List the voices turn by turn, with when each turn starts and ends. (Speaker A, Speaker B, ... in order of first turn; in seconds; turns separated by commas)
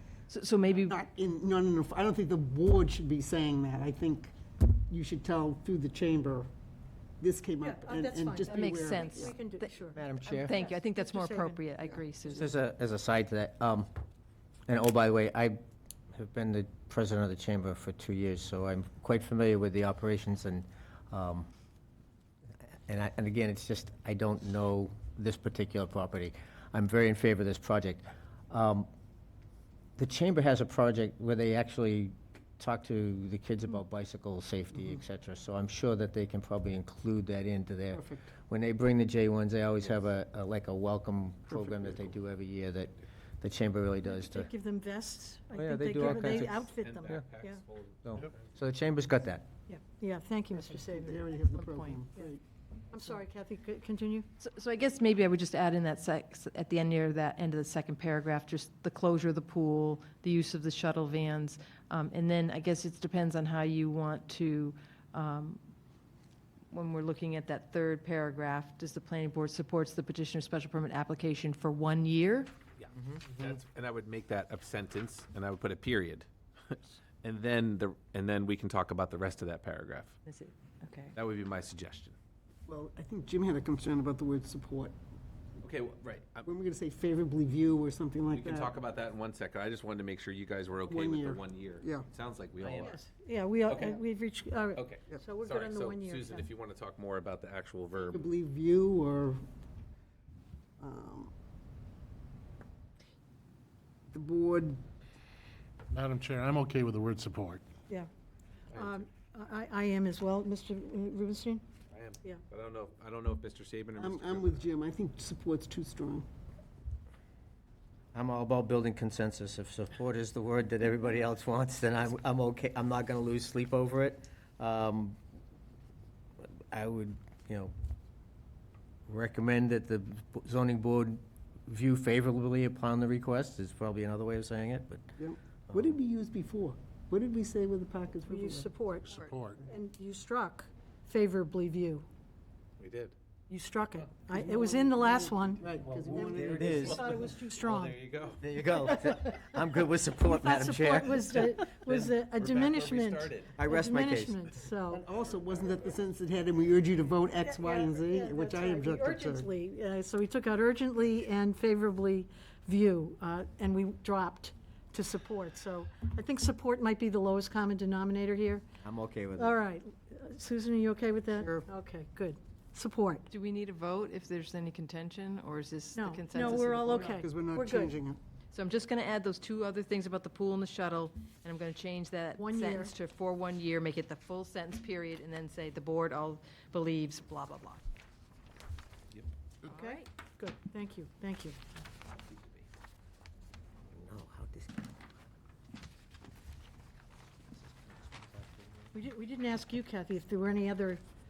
Speaker A: 0.3-1.0, Speaker B: 0.9-4.3, Speaker B: 4.9-6.5, Speaker B: 7.2-9.3, Speaker C: 7.6-11.6, Speaker A: 8.5-9.7, Speaker D: 9.9-10.5, Speaker A: 10.3-12.5, Speaker D: 12.3-13.9, Speaker D: 14.7-15.6, Speaker D: 16.1-21.5, Speaker D: 22.9-28.9, Speaker D: 30.0-44.5, Speaker B: 37.9-38.3, Speaker B: 41.5-42.0, Speaker C: 44.2-47.6, Speaker D: 45.5-47.2, Speaker E: 46.2-48.0, Speaker D: 48.0-49.5, Speaker C: 49.7-51.2, Speaker B: 50.6-52.4, Speaker A: 51.5-52.0, Speaker C: 52.9-54.3, Speaker A: 54.4-65.6, Speaker A: 66.7-72.5, Speaker E: 72.8-80.2, Speaker A: 80.2-81.1, Speaker E: 81.1-82.2, Speaker B: 82.7-84.9, Speaker E: 85.6-86.5, Speaker B: 86.5-88.8, Speaker E: 88.3-93.0, Speaker B: 90.9-92.1, Speaker C: 92.6-96.5, Speaker E: 93.7-94.0, Speaker E: 94.7-98.2, Speaker B: 98.1-99.4, Speaker B: 100.8-101.3, Speaker B: 104.1-104.8, Speaker F: 105.9-107.6, Speaker C: 108.7-111.7, Speaker E: 111.9-114.7, Speaker B: 114.0-116.3, Speaker D: 118.1-125.2, Speaker D: 126.7-127.7, Speaker D: 129.1-135.1, Speaker B: 135.2-138.7, Speaker C: 138.3-142.1, Speaker F: 139.2-139.6, Speaker E: 142.8-143.1, Speaker C: 143.5-148.0, Speaker B: 144.3-147.0, Speaker D: 146.3-147.0, Speaker E: 146.8-148.4, Speaker D: 148.4-151.4, Speaker C: 150.3-155.1, Speaker E: 151.8-153.5, Speaker D: 153.5-154.4, Speaker B: 154.9-159.5, Speaker C: 157.4-168.7, Speaker D: 168.8-169.6, Speaker C: 169.4-173.2, Speaker B: 171.3-171.7, Speaker A: 173.3-177.2, Speaker C: 175.9-177.9, Speaker B: 176.7-178.2, Speaker A: 178.5-187.8, Speaker C: 182.4-182.9, Speaker A: 189.6-190.1, Speaker C: 189.7-191.6, Speaker D: 194.1-194.8, Speaker C: 198.9-201.0